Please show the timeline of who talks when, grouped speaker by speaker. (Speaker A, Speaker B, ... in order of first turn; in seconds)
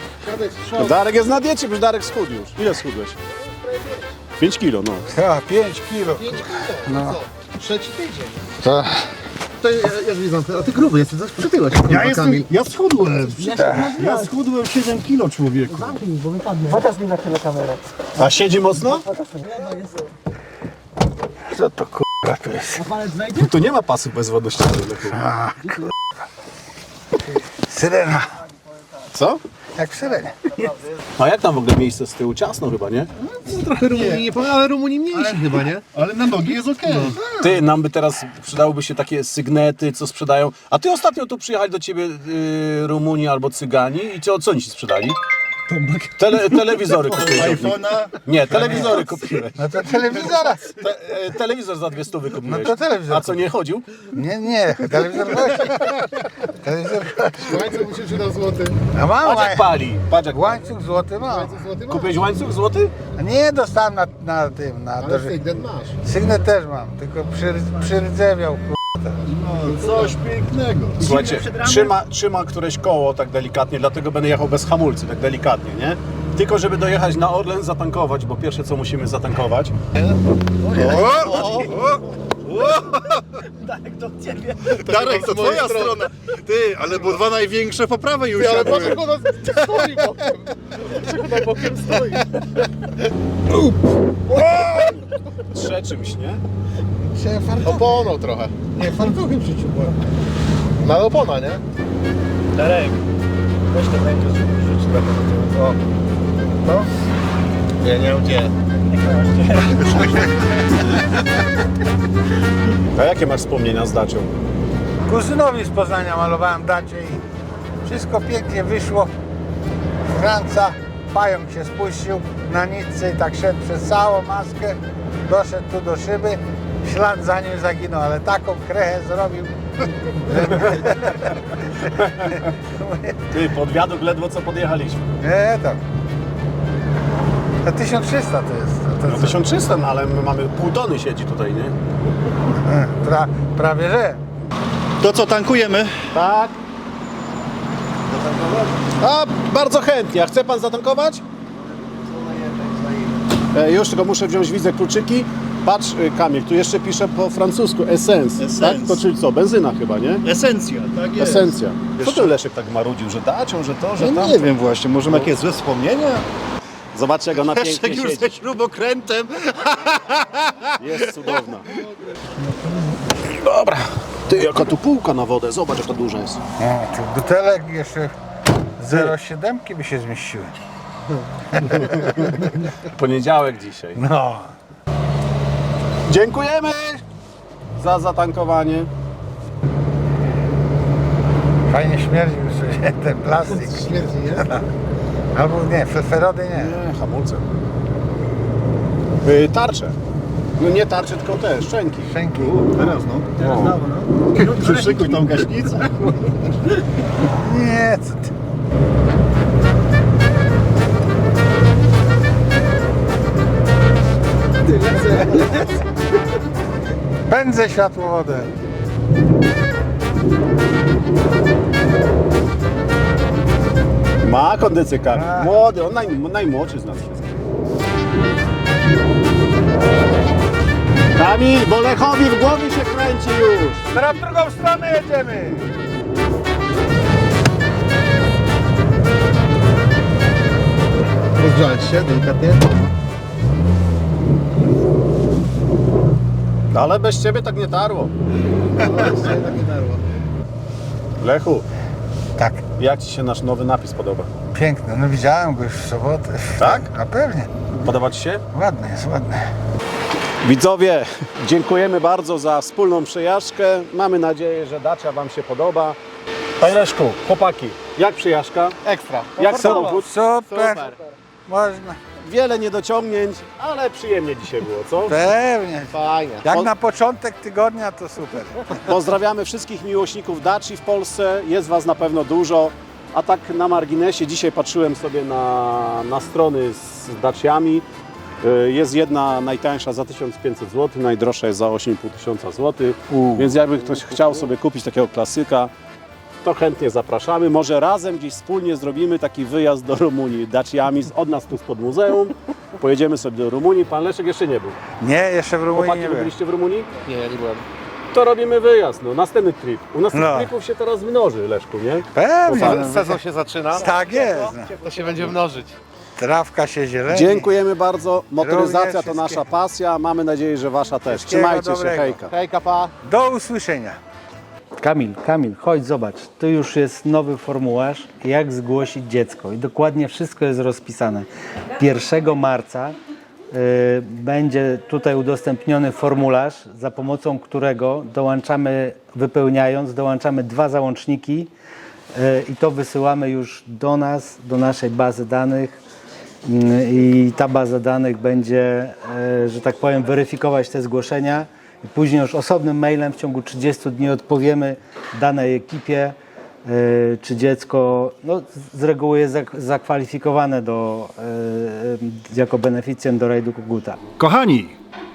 Speaker A: 0.2-1.0, 3.3-4.1, 6.1-8.6, 9.6-12.5, 13.1-14.3, 15.7-17.9, 19.1-20.1, 22.8-23.4, 33.7-37.2, 57.4-58.8, 61.2-62.1, 65.0-66.0, 69.6-70.2, 71.0-71.9, 80.6-82.0, 84.6-86.1, 88.3-92.3, 97.6-98.7, 100.8-101.6, 103.7-105.8, 106.6-106.9, 107.8-108.5, 109.6-110.0, 148.1-148.7, 151.6-153.3, 193.6-194.4, 204.3-205.4, 214.8-215.6, 241.4-242.9, 248.8-250.0, 268.8-271.0, 275.9-276.4, 307.0-307.6, 312.5-315.8, 322.3-322.9
Speaker B: 0.8-3.2, 4.4-5.1, 18.2-19.1, 23.3-25.2, 29.1-29.4, 31.2-34.1, 37.2-45.2, 46.2-49.7, 50.7-53.9, 59.2-60.7, 61.9-62.9, 71.0-79.7, 95.5-96.4, 112.9-114.4, 131.9-132.4, 133.3-135.1, 139.1-141.7, 146.1-146.6, 149.0-151.2, 153.5-160.2, 161.2-164.5, 166.9-168.3, 170.8-171.7, 173.2-176.4, 181.7-184.0, 186.1-187.0, 187.8-188.9, 196.5-197.4, 199.2-200.0, 200.6-202.1, 203.4-203.8, 204.6-205.2, 224.2-227.4, 231.1-233.8, 246.7-248.1, 251.2-251.7, 252.8-254.3, 256.6-256.9, 257.8-258.4, 260.4-266.0, 266.6-268.8, 269.4-270.1, 272.2-275.3, 276.4-276.7, 278.8-287.9, 288.4-295.7, 296.4-304.8, 305.7-306.9, 308.1-313.0, 317.1-322.3
Speaker C: 5.1-7.2, 8.6-9.1, 13.6-13.9, 21.5-22.8, 25.2-25.9, 27.6-28.4, 29.8-30.4, 49.6-50.8, 52.5-53.4, 54.1-57.8, 58.9-59.7, 60.3-61.6, 63.2-65.4, 66.0-69.2, 97.1-98.0, 98.8-100.0, 115.1-117.2, 117.8-119.1, 120.1-133.2, 135.2-135.8, 137.6-139.5, 142.6-144.2, 176.6-178.1, 178.8-180.6, 181.5-182.5, 184.0-184.5, 191.7-194.7, 195.3-196.8, 202.1-202.6, 207.2-208.3, 217.3-218.5, 225.1-225.5, 233.9-235.7, 252.4-252.6, 254.5-257.7, 258.5-259.5, 269.5-270.9, 271.5-272.0, 275.1-278.8, 305.0-306.3, 310.1-310.5, 312.1-313.2, 313.7-314.7, 316.2-317.5, 318.4-319.4, 321.1-322.3, 323.0-324.0
Speaker D: 11.9-16.0, 35.9-37.2, 45.7-49.0, 69.3-71.1, 80.7-89.2, 102.6-103.0, 103.7-104.8, 109.1-110.1, 145.0-146.1, 158.4-159.0, 160.2-162.4, 164.0-166.3, 167.4-171.9, 202.3-206.5, 364.2-364.8
Speaker E: 324.8-331.3, 331.8-333.0, 333.5-341.5, 342.1-345.8, 346.4-364.0